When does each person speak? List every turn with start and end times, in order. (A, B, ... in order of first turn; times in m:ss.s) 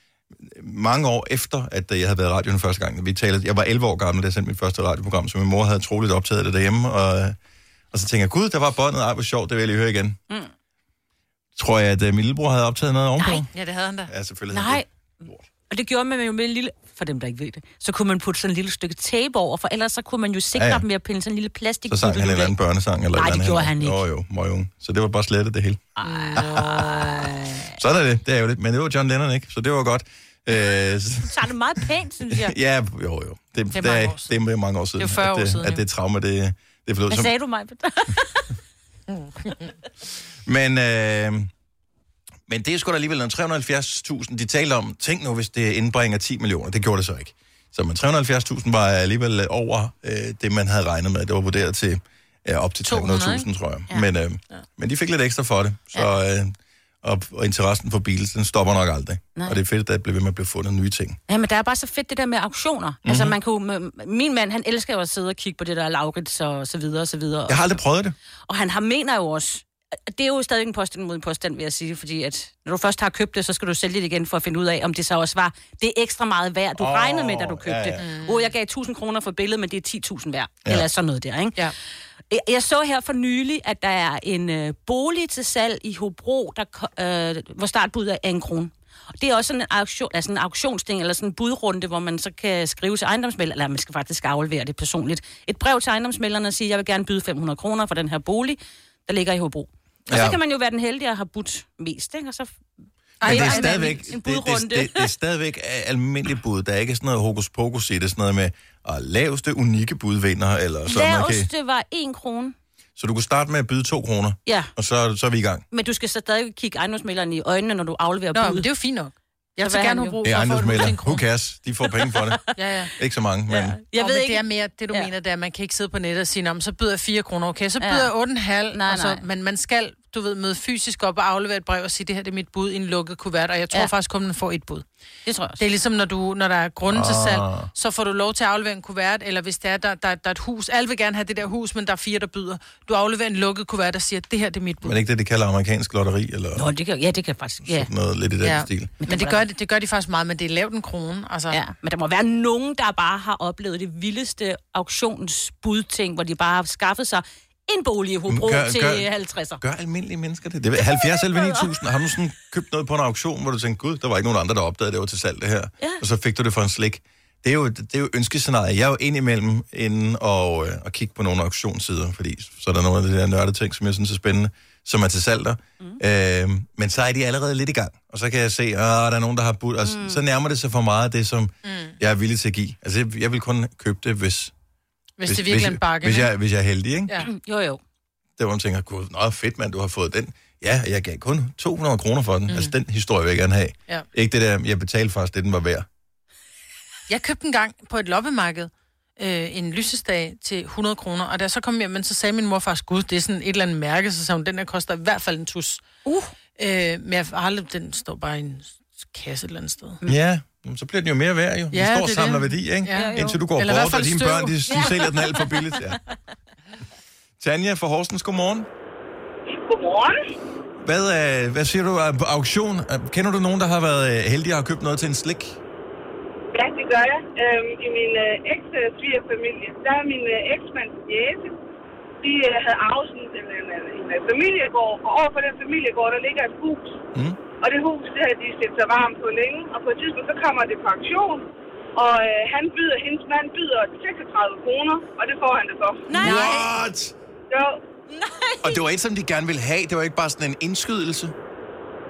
0:00.4-0:07.4 A
0:07.9-0:10.2 A
0:11.6-0:13.5 A
0:13.5-0:14.1 B
0:14.1-0:15.4 A
0:14.5-0:14.9 C
0:15.7-0:22.5 C
0:20.5-0:20.8 A
0:21.9-0:25.9 A
0:23.1-0:24.0 C
0:26.0-0:27.7 C
0:26.0-0:27.2 B
0:26.4-0:26.6 A
0:27.8-0:31.4 A
0:31.2-0:32.5 C
0:32.3-0:37.3 A
0:33.7-0:34.4 B
0:35.0-0:35.8 B
0:37.1-0:38.6 C
0:39.1-0:39.7 B
0:40.5-0:41.5 A
0:42.5-1:01.2 A
0:52.8-0:53.5 B
1:01.3-1:07.8 C
1:03.0-1:03.4 A
1:07.5-1:08.2 A
1:08.5-1:21.7 C
1:16.8-1:18.0 A
1:18.0-1:18.5 B
1:22.3-1:42.6 C
1:40.1-1:40.4 A
1:43.2-1:44.0 B
1:43.2-1:45.1 C
1:43.2-1:51.5 A
1:50.9-1:52.6 C
1:53.0-1:55.6 A
1:54.5-1:54.7 C
1:55.7-1:58.7 C
1:58.3-2:01.2 B
1:59.6-2:00.2 C
2:00.2-2:02.4 A
2:02.6-2:02.9 B
2:03.0-2:03.8 A
2:03.5-2:05.1 C
2:03.9-2:14.9 B
2:07.8-2:08.1 C
2:08.7-2:09.2 C
2:15.3-2:15.6 C
2:15.6-2:25.0 B
2:16.9-2:17.7 A
2:24.8-2:26.7 A
2:26.6-2:27.9 C
2:27.6-2:28.9 A
2:28.4-2:31.6 B
2:29.0-2:29.4 C
2:31.5-2:39.6 C
2:38.3-2:39.1 A
2:39.6-3:04.5 A
2:40.9-2:41.7 C
2:59.8-3:00.2 C
3:01.6-3:02.0 B
3:05.2-3:06.3 B
3:05.3-3:07.1 A
3:07.2-3:07.8 C
3:08.4-3:15.9 A
3:12.5-3:12.7 B
3:17.1-3:25.9 B
3:26.0-3:26.3 C
3:26.6-3:30.0 B
3:30.1-3:36.0 A
3:31.7-3:34.9 B
3:32.9-3:33.4 C
3:34.7-3:35.4 C
3:37.4-3:38.7 A
3:39.7-3:40.2 D
3:40.8-3:45.6 A
3:46.5-3:51.6 D
3:52.2-3:57.0 D
3:57.1-3:57.4 A
3:57.6-4:06.0 D
4:06.1-4:06.7 C
4:06.2-4:07.2 A
4:06.2-4:06.6 B
4:07.5-4:07.8 D
4:08.1-4:08.8 C
4:08.6-4:11.4 A